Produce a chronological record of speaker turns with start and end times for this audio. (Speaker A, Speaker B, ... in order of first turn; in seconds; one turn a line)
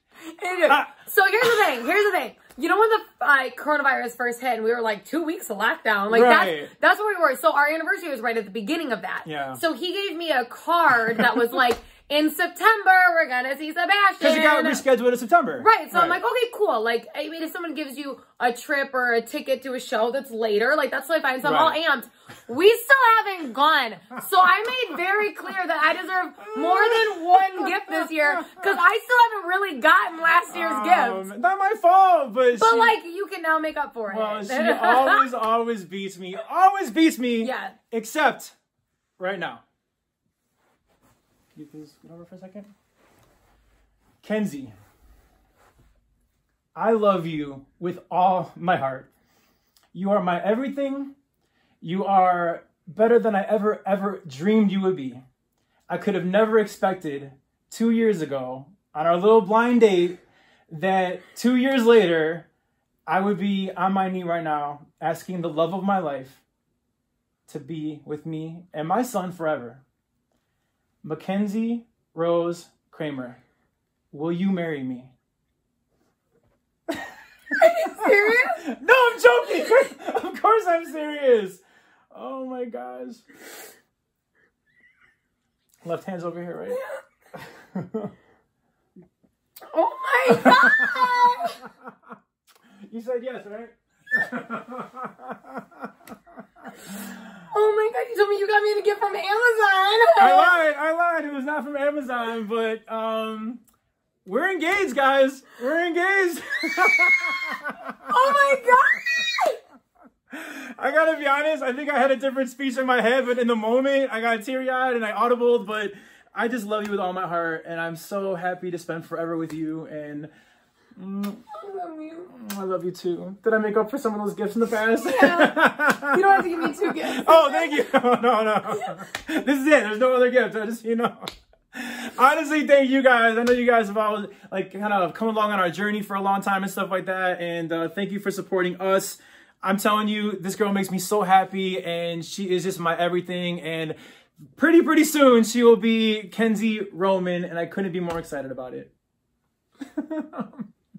Speaker A: 0.3-14.8
Speaker B: 6.1-6.7
Speaker B: 9.2-9.6
Speaker B: 14.2-16.2
Speaker A: 15.6-31.3
Speaker B: 21.4-21.8
Speaker B: 26.5-28.8
Speaker B: 30.5-33.0
Speaker A: 32.5-35.2
Speaker B: 34.1-38.5
Speaker A: 37.4-37.8
Speaker B: 39.2-39.6
Speaker B: 41.5-42.7
Speaker B: 44.2-44.8
Speaker B: 46.8-49.1
Speaker B: 49.9-51.1
Speaker B: 51.8-55.2
Speaker B: 55.9-62.5
Speaker B: 63.1-66.4
Speaker B: 67.5-69.8
Speaker B: 71.0-73.4
Speaker B: 74.1-75.1
Speaker A: 77.6-78.6
Speaker B: 77.7-83.2
Speaker B: 85.8-86.8
Speaker A: 86.7-87.0
Speaker B: 87.3-88.1
Speaker A: 89.7-91.6
Speaker B: 90.3-91.9
Speaker B: 92.9-95.8
Speaker B: 96.9-97.2
Speaker A: 97.5-100.6
Speaker B: 100.2-103.6
Speaker B: 104.2-108.4
Speaker A: 108.1-109.6
Speaker B: 110.3-120.3
Speaker B: 121.0-121.4
Speaker A: 121.5-122.3
Speaker B: 122.3-143.9
Speaker A: 125.0-127.8
Speaker A: 128.7-129.1
Speaker B: 144.5-148.9
Speaker B: 149.9-150.7